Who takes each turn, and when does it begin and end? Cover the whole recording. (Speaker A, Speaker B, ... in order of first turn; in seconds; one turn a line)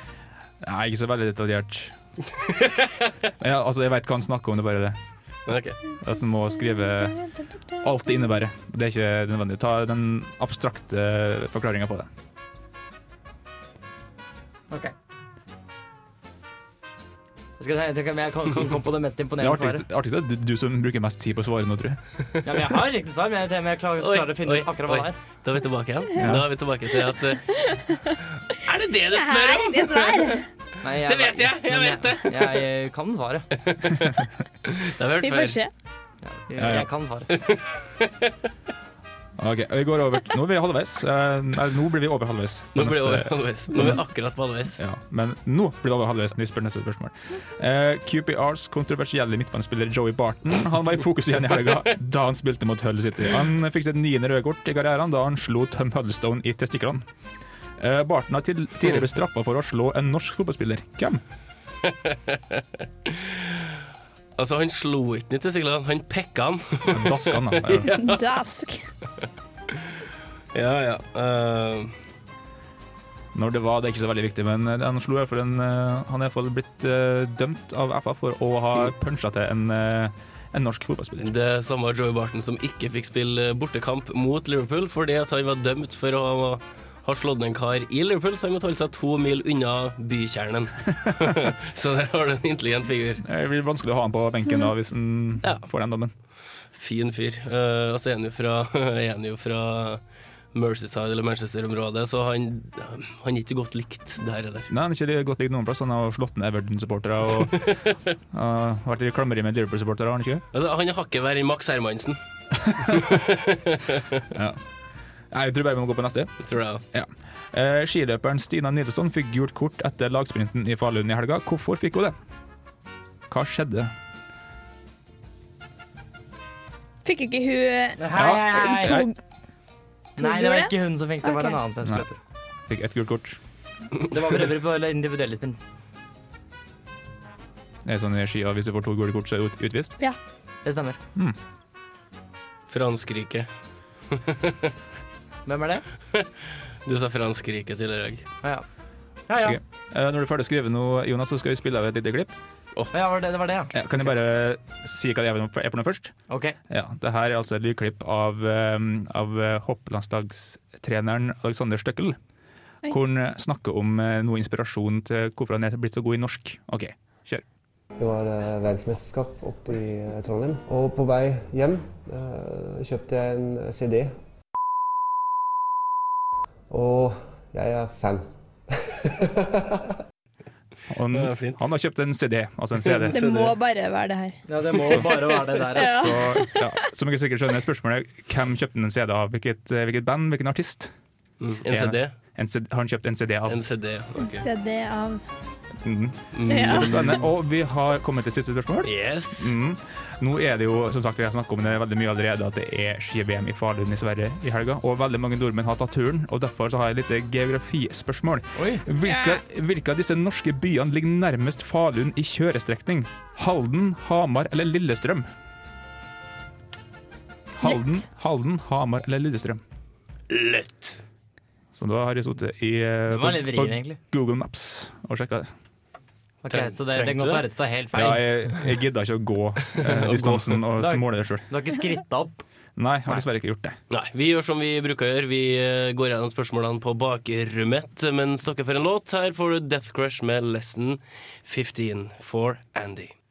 Speaker A: 0.6-1.9
Speaker B: 2.5-2.9
Speaker A: 3.4-5.0
Speaker B: 5.5-5.8
Speaker A: 6.0-7.2
Speaker A: 7.8-12.1
Speaker C: 17.6-19.8
Speaker A: 19.4-22.0
Speaker C: 22.4-25.1
Speaker B: 24.0-27.7
Speaker A: 26.2-26.5
Speaker B: 28.5-30.4
Speaker D: 29.1-30.4
Speaker C: 30.8-33.5
Speaker B: 31.1-32.6
Speaker B: 33.6-35.6
Speaker D: 35.2-35.7
Speaker C: 36.2-37.3
Speaker A: 36.5-36.9
Speaker B: 37.3-38.1
Speaker A: 39.4-44.1
Speaker B: 42.7-44.8
Speaker A: 44.8-57.0
Speaker A: 57.8-61.2
Speaker B: 61.9-63.5
Speaker B: 64.4-68.2
Speaker A: 66.9-67.9
Speaker D: 68.0-68.8
Speaker B: 70.5-71.9
Speaker A: 73.3-81.3
Speaker B: 81.2-93.2
Speaker A: 93.2-96.1
Speaker B: 95.4-95.7
Speaker B: 96.7-100.0
Speaker B: 100.5-104.7
Speaker A: 104.7-107.8
Speaker B: 107.6-107.9
Speaker A: 108.3-110.4
Speaker B: 110.5-112.2
Speaker B: 112.8-114.2
Speaker A: 114.3-114.6
Speaker A: 115.3-122.1
Speaker B: 116.4-116.8
Speaker A: 123.3-123.9
Speaker D: 127.0-129.1
Speaker C: 128.0-129.0
Speaker A: 128.1-129.1
Speaker C: 130.2-132.2
Speaker D: 130.2-131.6
Speaker A: 132.7-133.4
Speaker C: 134.1-135.6
Speaker A: 137.8-140.0
Speaker C: 140.6-141.0
Speaker B: 142.7-143.5
Speaker B: 144.1-144.7
Speaker C: 145.4-145.8
Speaker B: 146.8-148.2
Speaker C: 149.3-149.6
Speaker A: 149.4-152.3
Speaker C: 152.9-153.7
Speaker A: 153.7-156.2
Speaker C: 156.3-156.6
Speaker A: 156.7-162.2
Speaker A: 162.8-167.4
Speaker E: 168.0-174.1
Speaker E: 176.7-178.3
Speaker E: 178.8-179.8
Speaker A: 180.9-183.2
Speaker B: 181.1-181.6
Speaker B: 182.8-183.5
Speaker D: 183.1-184.4
Speaker C: 184.5-186.1
Speaker A: 184.8-185.1
Speaker D: 185.7-186.7
Speaker A: 185.7-190.9
Speaker B: 191.4-192.1
Speaker A: 191.7-193.6
Speaker B: 193.5-194.4
Speaker D: 194.2-195.2
Speaker A: 195.8-215.3
Speaker B: 196.3-197.2
Speaker D: 196.5-197.1
Speaker B: 198.8-199.5
Speaker C: 208.6-208.8
Speaker D: 209.1-209.3
Speaker A: 217.5-219.6
Speaker D: 217.6-217.9
Speaker B: 220.3-221.0
Speaker A: 221.7-225.5
Speaker C: 223.1-224.0
Speaker C: 226.4-228.7
Speaker B: 226.5-227.4
Speaker A: 227.9-231.4
Speaker B: 229.7-230.6
Speaker C: 230.8-232.4
Speaker A: 232.8-233.8
Speaker B: 233.9-243.1